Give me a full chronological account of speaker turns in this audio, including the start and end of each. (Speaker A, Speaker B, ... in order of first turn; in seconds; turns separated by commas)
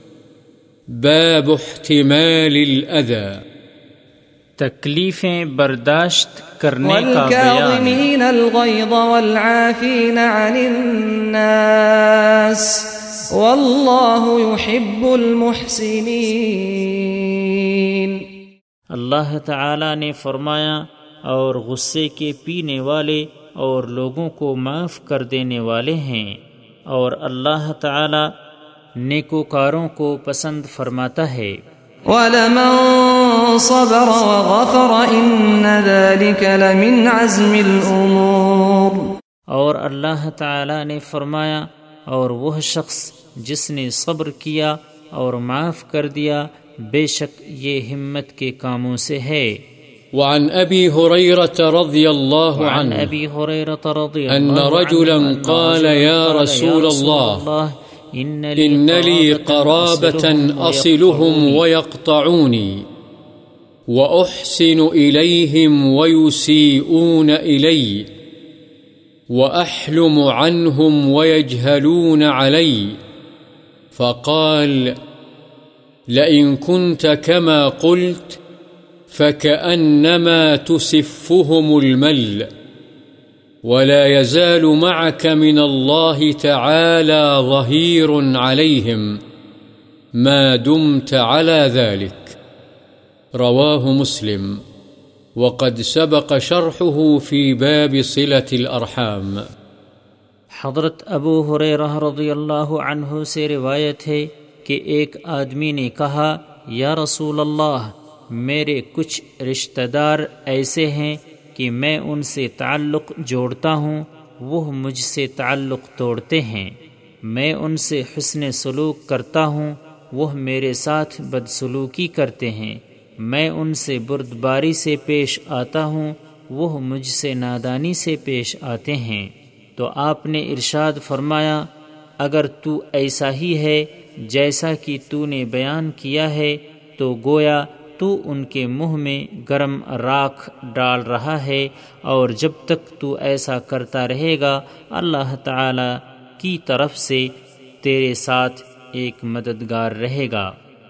Speaker A: 1.0-3.4, Speaker B: 4.6-8.0, Speaker C: 6.8-12.8, Speaker C: 13.3-18.2, Speaker B: 18.9-26.4, Speaker B: 26.9-28.2, Speaker B: 29.0-31.6, Speaker C: 32.1-39.0, Speaker B: 39.5-49.5, Speaker A: 50.1-53.1, Speaker B: 52.5-61.6, Speaker A: 54.3-57.4, Speaker A: 58.6-62.8, Speaker A: 63.9-68.0, Speaker A: 69.3-73.0, Speaker A: 73.9-74.9, Speaker A: 76.1-78.4, Speaker A: 79.1-82.5, Speaker A: 83.6-89.1, Speaker A: 90.2-92.3, Speaker A: 93.4-94.6, Speaker A: 95.4-99.4, Speaker B: 100.6-116.8, Speaker B: 117.3-131.7, Speaker B: 132.2-150.5